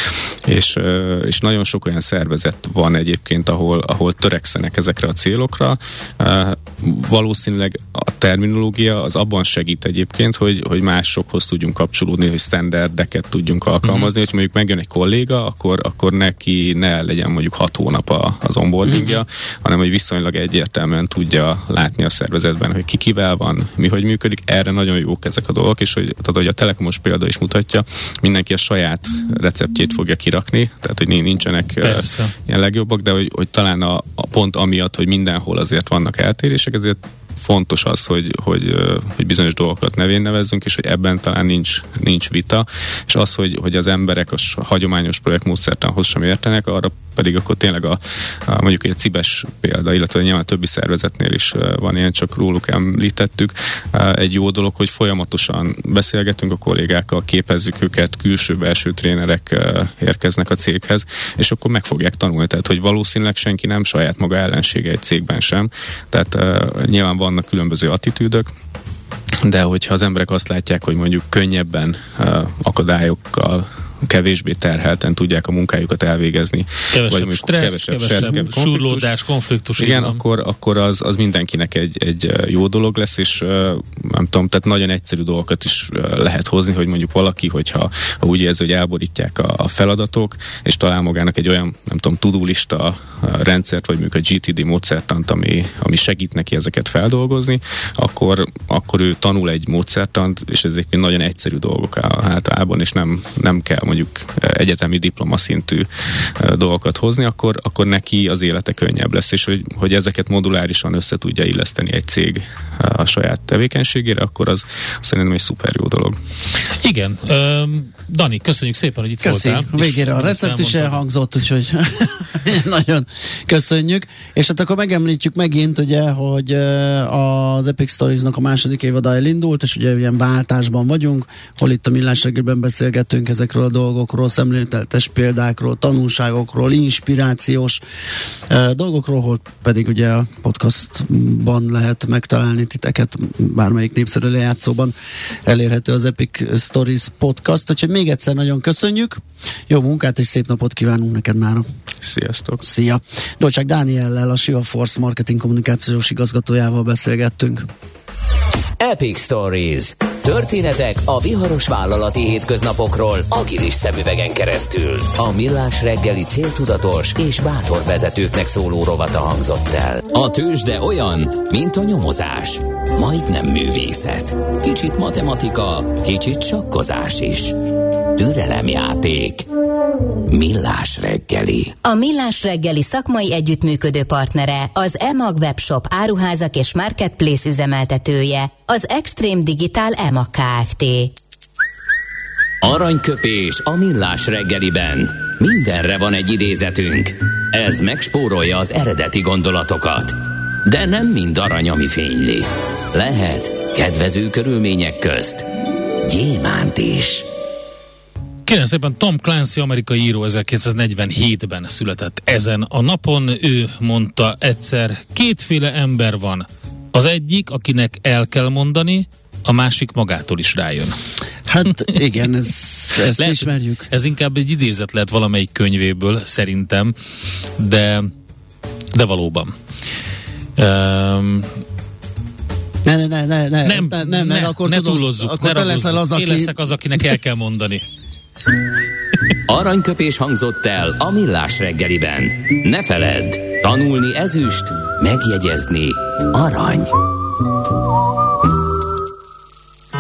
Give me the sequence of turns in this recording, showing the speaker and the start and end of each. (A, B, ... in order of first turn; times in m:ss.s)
0:00.5-1:08.5 A
0:13.8-0:14.1 B
0:18.9-0:19.2 B
0:31.8-0:32.3 B
1:09.4-1:19.1 A
1:16.9-1:20.2 B
1:19.8-1:45.9 A
1:46.4-1:56.2 A
1:56.8-2:01.0 B
1:59.2-2:17.8 C
2:18.5-2:24.9 C
2:25.5-2:31.6 C
2:32.0-2:32.6 A
2:32.6-2:37.7 C
2:38.8-2:57.6 D
2:58.2-2:59.5 D
3:00.3-3:01.8 D
3:01.8-3:11.1 E
3:12.6-3:25.5 D
3:26.0-3:27.3 D
3:28.5-3:41.0 B
3:41.5-3:43.9 C
3:43.2-3:47.0 B
3:47.6-3:48.1 B
3:48.9-3:49.5 B
3:50.6-3:51.5 B
3:52.8-3:56.6 C
3:53.6-3:57.8 B
3:59.5-4:07.0 D